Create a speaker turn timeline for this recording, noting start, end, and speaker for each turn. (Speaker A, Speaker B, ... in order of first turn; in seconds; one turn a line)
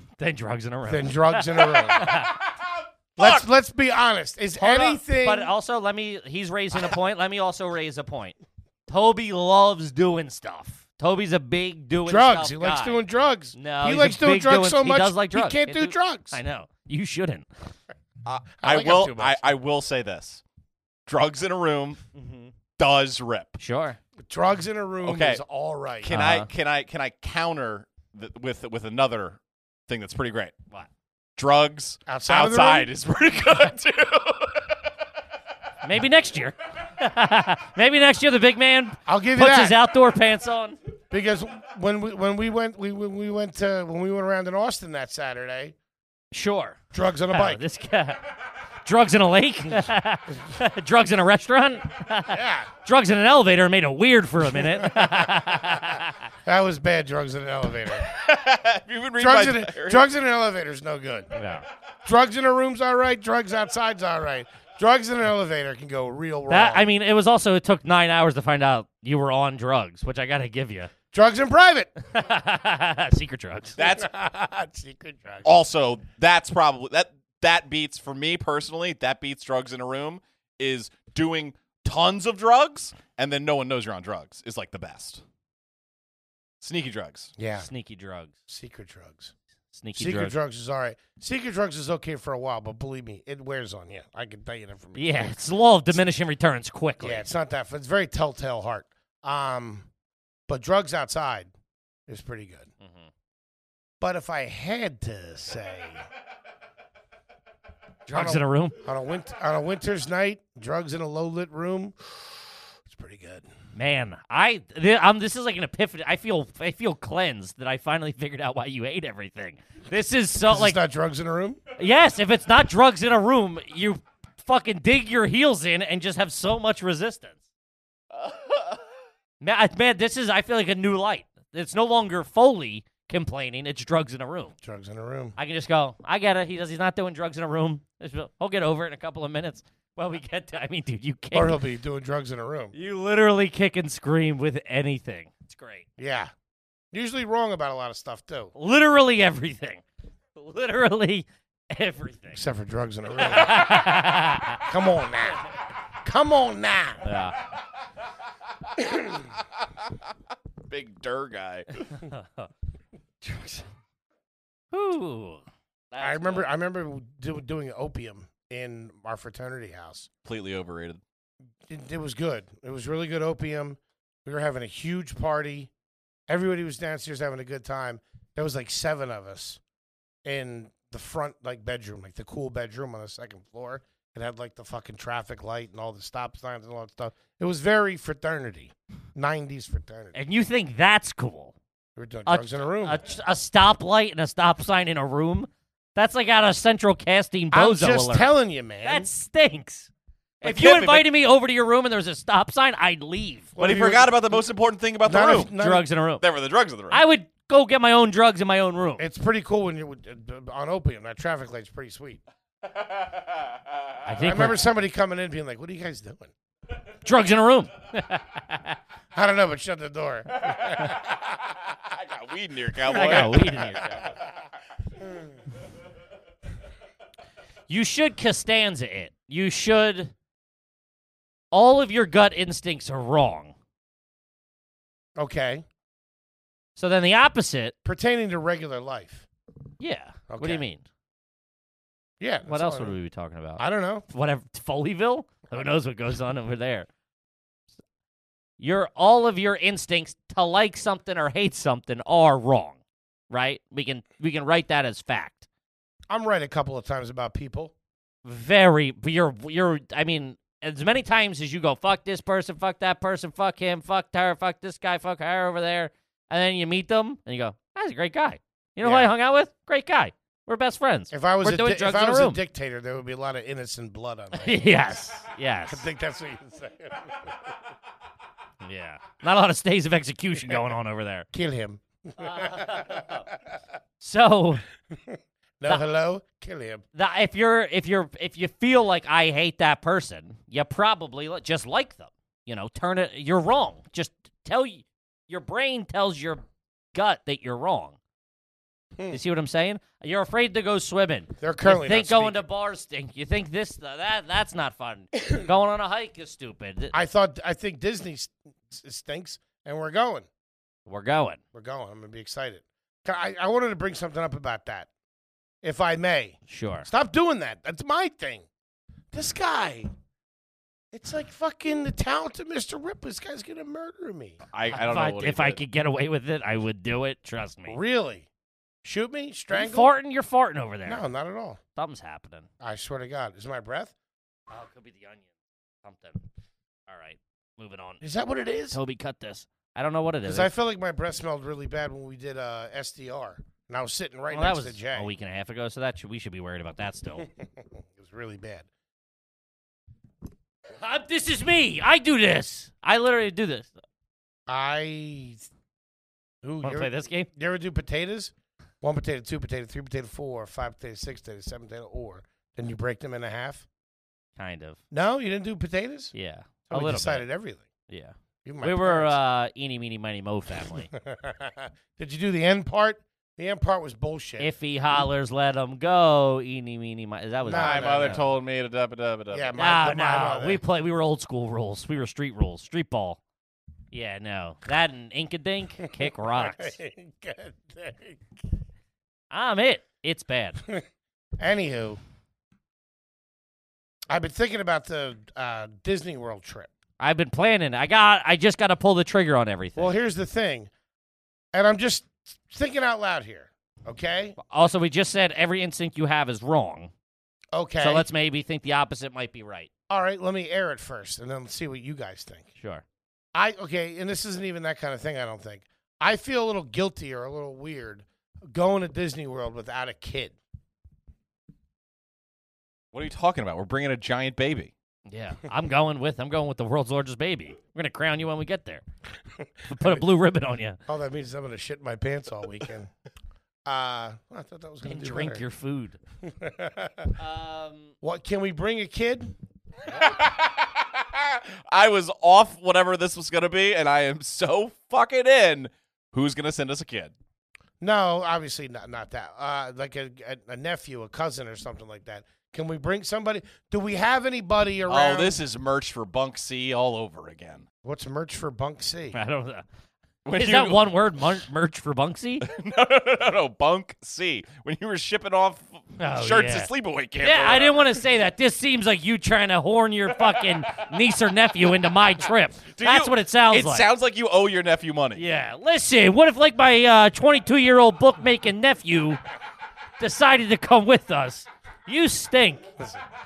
Speaker A: 0.2-2.4
Speaker B: 0.9-2.2
Speaker B: 3.2-5.5
Speaker C: 3.2-3.4
Speaker A: 4.5-8.3
Speaker A: 8.9-13.0
Speaker B: 12.1-16.4
Speaker A: 13.5-17.5
Speaker C: 18.2-20.4
Speaker B: 18.6-19.5
Speaker C: 21.1-22.0
Speaker A: 22.1-22.5
Speaker C: 22.8-23.6
Speaker A: 23.6-24.0
Speaker B: 24.2-26.1
Speaker C: 25.0-25.4
Speaker C: 26.0-30.5
Speaker A: 26.1-26.5
Speaker C: 31.4-34.7
Speaker B: 32.1-32.9
Speaker A: 35.8-40.8
Speaker B: 39.0-39.8
Speaker B: 41.1-45.7
Speaker A: 46.3-46.8
Speaker B: 46.9-47.6
Speaker A: 47.3-48.2
Speaker A: 48.8-56.1
Speaker B: 52.3-52.7
Speaker B: 54.5-55.2
Speaker B: 56.4-58.1
Speaker C: 58.0-60.0
Speaker B: 59.2-61.3
Speaker A: 61.3-61.6
Speaker B: 62.0-66.9
Speaker A: 66.5-70.9
Speaker B: 71.1-71.9
Speaker A: 72.1-73.8
Speaker C: 73.8-74.1
Speaker B: 73.8-75.5
Speaker C: 75.4-85.2
Speaker C: 86.6-87.3
Speaker B: 87.4-87.7
Speaker A: 87.6-88.3
Speaker B: 88.5-89.3
Speaker A: 89.7-90.3
Speaker B: 90.0-96.0
Speaker A: 94.9-97.3
Speaker B: 97.0-99.9
Speaker B: 100.5-101.5
Speaker B: 102.1-102.7
Speaker A: 102.8-103.1
Speaker B: 104.0-106.0
Speaker A: 108.1-108.8
Speaker B: 108.1-113.5
Speaker A: 113.7-120.8
Speaker B: 120.4-121.6
Speaker A: 121.8-127.4
Speaker C: 128.1-128.8
Speaker A: 129.4-134.5
Speaker B: 134.6-135.3
Speaker A: 135.4-141.6
Speaker B: 141.3-142.7
Speaker A: 142.7-145.8
Speaker B: 146.0-146.3
Speaker B: 146.9-148.5
Speaker A: 148.6-149.8
Speaker A: 150.3-152.4
Speaker B: 152.3-153.8
Speaker A: 153.2-154.6
Speaker B: 154.6-155.4
Speaker B: 155.9-157.0
Speaker A: 157.0-157.4
Speaker B: 158.8-159.2
Speaker C: 160.7-162.0
Speaker A: 162.0-162.5
Speaker A: 163.2-163.7
Speaker A: 164.7-166.5
Speaker B: 166.0-170.1
Speaker C: 170.2-171.0
Speaker B: 171.7-175.7
Speaker B: 176.3-179.6
Speaker B: 180.2-190.1
Speaker A: 190.1-191.5
Speaker B: 191.9-193.0
Speaker A: 192.2-199.9
Speaker B: 197.5-199.1
Speaker C: 200.4-201.1
Speaker A: 200.4-203.5
Speaker B: 203.6-204.4
Speaker C: 203.6-205.5
Speaker B: 205.0-205.8
Speaker A: 205.6-206.2
Speaker C: 206.2-207.0
Speaker A: 206.9-209.0
Speaker B: 209.0-212.2
Speaker A: 214.1-214.7
Speaker B: 214.2-216.3
Speaker A: 217.0-218.8
Speaker B: 219.1-221.1
Speaker C: 221.7-223.8
Speaker B: 222.8-223.3
Speaker A: 222.9-224.1
Speaker A: 227.7-230.1
Speaker A: 231.5-233.5
Speaker B: 235.2-235.6
Speaker A: 236.8-237.7
Speaker B: 237.8-239.3
Speaker A: 239.8-240.8
Speaker B: 240.3-240.6
Speaker B: 242.2-243.0
Speaker A: 242.5-246.9
Speaker B: 243.6-244.1
Speaker A: 248.6-255.4
Speaker B: 256.1-257.7
Speaker A: 258.2-272.4
Speaker B: 268.8-269.1
Speaker B: 271.1-275.0
Speaker A: 274.3-275.8
Speaker B: 275.7-277.4
Speaker A: 278.6-281.3
Speaker B: 281.3-283.4
Speaker A: 282.2-283.2
Speaker A: 284.0-284.6
Speaker B: 284.9-286.8
Speaker A: 286.9-296.4
Speaker A: 296.9-298.0
Speaker A: 299.1-306.9
Speaker B: 301.4-302.4
Speaker B: 306.9-310.3
Speaker A: 310.9-311.4
Speaker B: 311.5-314.9
Speaker B: 315.6-318.5
Speaker A: 316.5-316.9
Speaker B: 319.1-319.9
Speaker B: 320.9-324.4
Speaker C: 324.5-325.6
Speaker A: 324.7-327.8
Speaker B: 327.7-328.3
Speaker B: 328.8-329.9
Speaker A: 329.5-331.0
Speaker B: 330.9-331.6
Speaker A: 331.7-332.5
Speaker B: 332.6-333.9
Speaker A: 334.5-335.2
Speaker A: 335.8-336.2
Speaker A: 336.9-338.0
Speaker B: 338.0-338.8
Speaker A: 338.7-340.5
Speaker B: 340.2-345.1
Speaker A: 344.3-347.3
Speaker B: 347.2-348.7
Speaker A: 350.8-353.7
Speaker B: 354.5-355.5
Speaker B: 356.4-363.6
Speaker A: 356.6-357.3
Speaker A: 364.4-364.8
Speaker B: 364.9-366.1
Speaker A: 366.1-367.2
Speaker B: 366.7-367.6
Speaker A: 367.9-370.9
Speaker B: 368.4-369.1
Speaker B: 370.9-375.0
Speaker A: 374.4-378.2
Speaker B: 377.4-378.2
Speaker C: 377.5-379.6
Speaker B: 379.3-380.6
Speaker A: 379.6-383.2
Speaker A: 383.9-386.8
Speaker B: 385.8-388.2
Speaker A: 389.3-390.6
Speaker B: 391.4-392.0
Speaker B: 394.1-396.7
Speaker A: 397.0-399.9
Speaker B: 399.8-400.7
Speaker B: 401.5-404.4
Speaker A: 404.4-406.9
Speaker B: 407.5-408.1
Speaker A: 407.8-409.7
Speaker B: 409.9-412.5
Speaker A: 412.6-412.8
Speaker B: 413.3-420.4
Speaker C: 422.9-424.7
Speaker A: 425.1-428.8
Speaker B: 429.6-430.0
Speaker A: 429.7-430.8
Speaker B: 430.9-432.9
Speaker B: 433.6-435.4
Speaker A: 434.8-436.0
Speaker B: 436.2-437.1
Speaker A: 437.2-437.9
Speaker B: 438.0-439.3
Speaker C: 439.9-447.1
Speaker B: 447.8-455.4
Speaker C: 454.9-457.6
Speaker B: 457.8-459.2
Speaker A: 459.1-459.6
Speaker C: 460.2-460.9
Speaker A: 460.4-462.4
Speaker C: 462.4-468.0
Speaker A: 466.0-473.9
Speaker C: 472.7-475.2
Speaker A: 475.1-479.2
Speaker A: 480.0-482.6